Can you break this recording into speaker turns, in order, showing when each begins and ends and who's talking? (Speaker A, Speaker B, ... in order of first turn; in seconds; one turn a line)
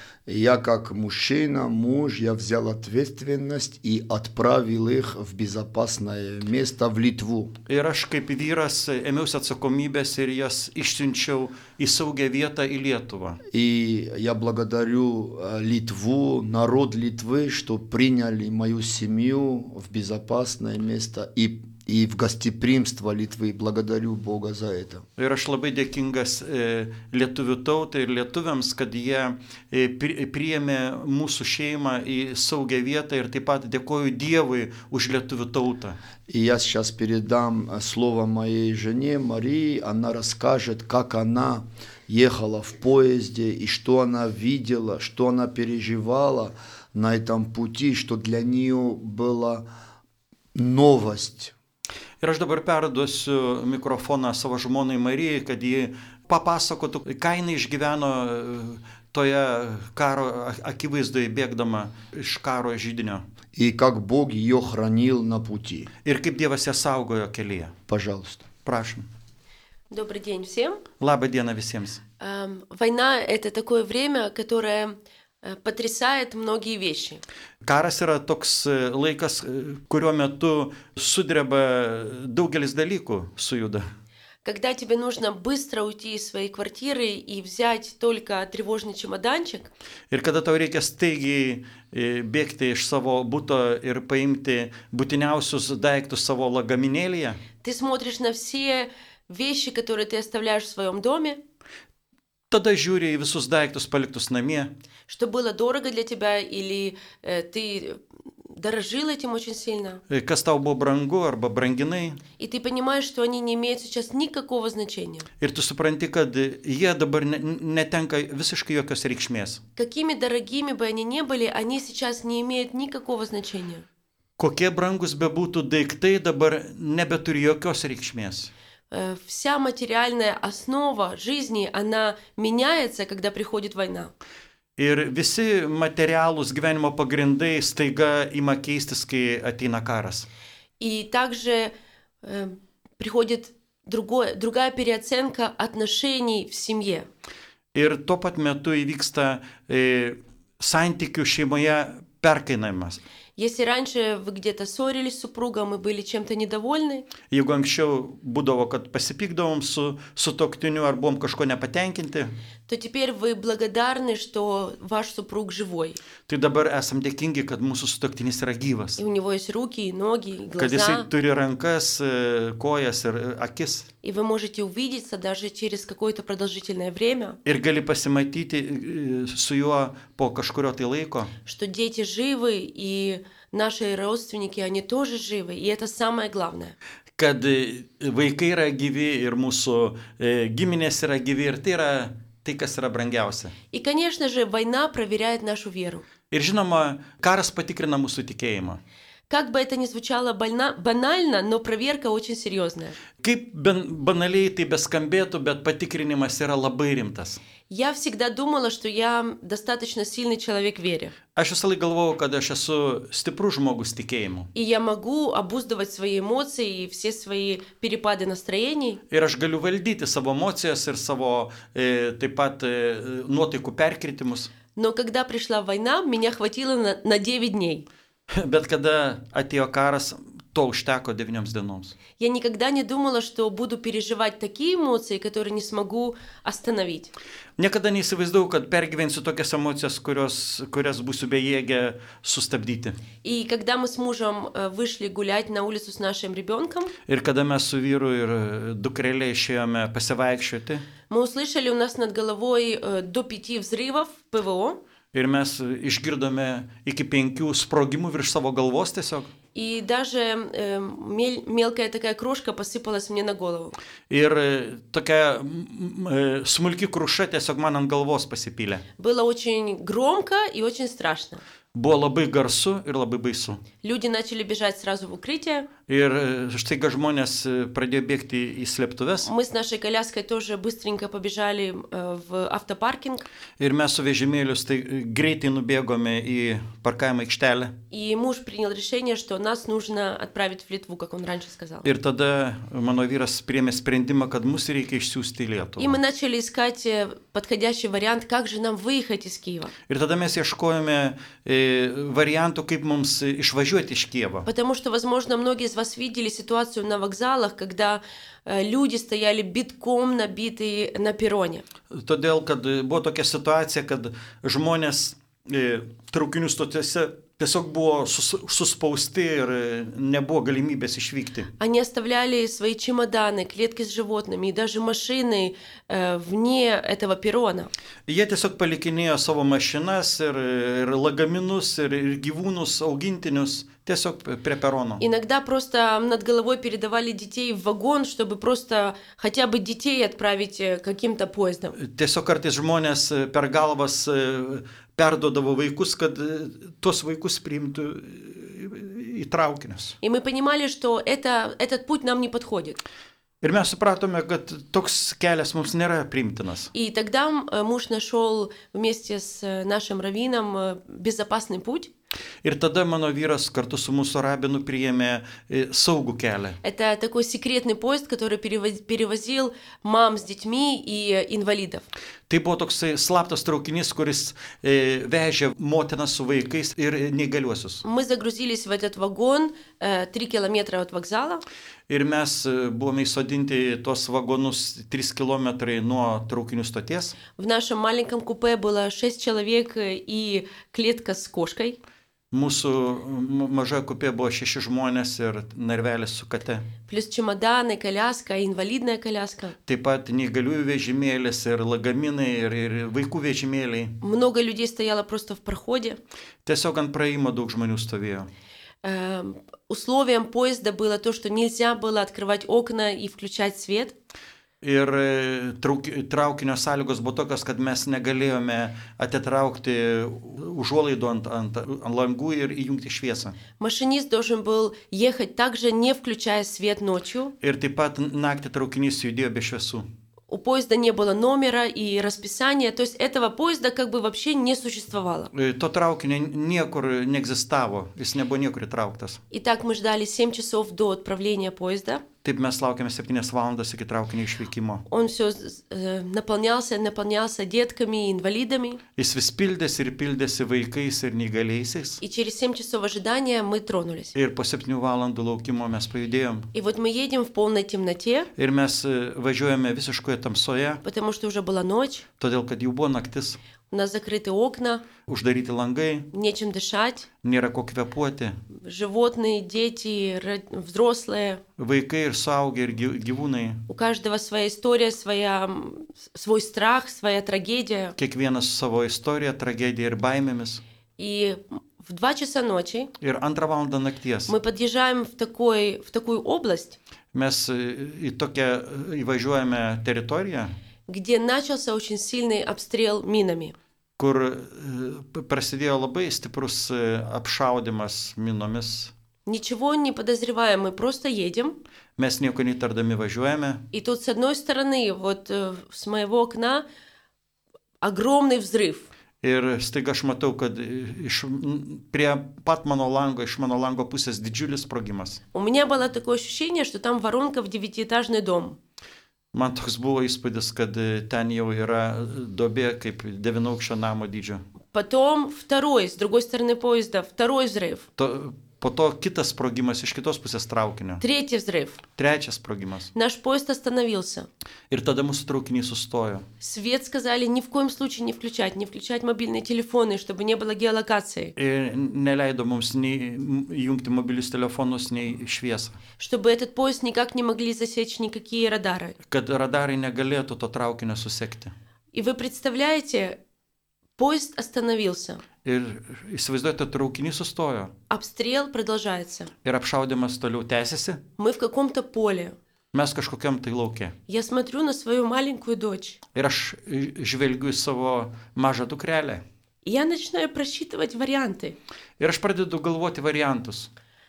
Speaker A: 0.3-7.5
Speaker B: 7.7-13.4
Speaker A: 13.5-25.1
Speaker B: 25.2-36.0
Speaker A: 36.3-49.7
Speaker A: 50.5-51.5
Speaker B: 52.2-63.2
Speaker A: 63.5-65.9
Speaker B: 66.0-67.8
Speaker A: 67.9-68.5
Speaker B: 68.6-69.1
Speaker C: 69.9-70.8
Speaker B: 71.0-72.0
Speaker C: 72.2-77.2
Speaker B: 77.6-83.9
Speaker C: 84.4-89.7
Speaker B: 90.1-97.4
Speaker C: 97.6-101.4
Speaker B: 102.5-104.7
Speaker C: 105.1-110.0
Speaker B: 110.1-112.2
Speaker C: 112.4-115.3
Speaker B: 115.4-119.6
Speaker C: 119.8-123.8
Speaker B: 124.4-128.5
Speaker C: 128.9-134.1
Speaker B: 134.8-140.3
Speaker C: 140.8-147.1
Speaker B: 147.7-153.0
Speaker C: 153.4-157.1
Speaker B: 157.3-162.3
Speaker C: 162.7-166.0
Speaker B: 166.3-169.0
Speaker C: 169.0-171.1
Speaker B: 170.6-173.9
Speaker C: 174.0-177.4
Speaker B: 177.4-181.3
Speaker C: 181.5-186.8
Speaker B: 187.2-193.5
Speaker C: 193.7-196.1
Speaker B: 196.3-198.8
Speaker C: 199.3-203.0
Speaker B: 203.2-207.4
Speaker C: 207.7-211.2
Speaker B: 211.3-214.5
Speaker C: 214.6-219.0
Speaker B: 219.1-224.5
Speaker C: 224.8-227.9
Speaker B: 228.3-232.0
Speaker C: 232.2-237.1
Speaker B: 237.6-243.0
Speaker C: 243.2-246.9
Speaker B: 247.1-250.8
Speaker C: 251.1-254.8
Speaker B: 255.1-259.3
Speaker C: 259.6-263.8
Speaker B: 264.1-268.8
Speaker C: 269.0-271.4
Speaker B: 271.7-273.6
Speaker C: 273.8-275.7
Speaker B: 275.9-279.3
Speaker C: 279.2-283.2
Speaker B: 283.6-287.8
Speaker C: 287.9-291.9
Speaker B: 291.8-296.0
Speaker C: 295.8-299.7
Speaker B: 299.9-304.5
Speaker C: 304.5-311.6
Speaker B: 311.9-321.5
Speaker C: 321.6-327.7
Speaker B: 328.1-335.0
Speaker C: 335.0-341.8
Speaker B: 341.8-350.0
Speaker C: 350.0-352.8
Speaker B: 353.4-356.7
Speaker C: 356.7-361.9
Speaker B: 362.4-366.6
Speaker C: 366.6-371.9
Speaker B: 372.3-377.8
Speaker C: 377.8-381.4
Speaker B: 381.9-387.2
Speaker C: 387.4-391.8
Speaker B: 392.3-396.7
Speaker C: 396.9-399.6
Speaker B: 399.7-404.0
Speaker C: 404.0-406.0
Speaker B: 406.4-408.3
Speaker C: 408.8-413.9
Speaker B: 414.6-423.4
Speaker C: 423.6-427.3
Speaker B: 427.4-429.9
Speaker C: 430.3-435.3
Speaker B: 435.3-439.2
Speaker C: 439.3-442.1
Speaker B: 442.2-444.9
Speaker C: 444.9-448.8
Speaker B: 449.0-452.0
Speaker C: 452.0-454.1
Speaker B: 454.1-456.5
Speaker C: 456.5-458.3
Speaker B: 458.4-460.8
Speaker C: 460.8-462.1
Speaker B: 462.2-463.4
Speaker C: 463.7-464.9
Speaker B: 465.1-466.1
Speaker C: 466.1-467.1
Speaker B: 467.2-468.4
Speaker C: 468.6-471.4
Speaker B: 471.6-473.6
Speaker C: 473.7-478.0
Speaker B: 478.0-480.6
Speaker C: 481.0-482.9
Speaker B: 483.0-484.3
Speaker C: 484.3-486.8
Speaker B: 487.1-490.6
Speaker C: 490.9-493.6
Speaker B: 494.0-498.9
Speaker C: 499.3-501.6
Speaker B: 502.0-503.6
Speaker C: 503.7-506.6
Speaker C: 507.8-508.9
Speaker B: 509.2-515.2
Speaker C: 515.3-518.6
Speaker B: 519.3-524.4
Speaker C: 524.7-527.9
Speaker B: 528.0-531.0
Speaker C: 531.0-531.8
Speaker B: 532.0-532.9
Speaker C: 533.0-534.3
Speaker B: 534.7-536.2
Speaker C: 536.4-541.3
Speaker B: 541.4-545.8
Speaker C: 546.0-549.0
Speaker B: 549.1-551.5
Speaker C: 551.9-553.2
Speaker C: 554.0-555.2
Speaker B: 555.4-557.7
Speaker C: 557.9-559.3
Speaker B: 559.4-561.0
Speaker C: 561.2-562.4
Speaker B: 562.7-563.9
Speaker C: 564.1-566.0
Speaker B: 566.1-569.2
Speaker C: 569.6-571.6
Speaker B: 572.0-573.7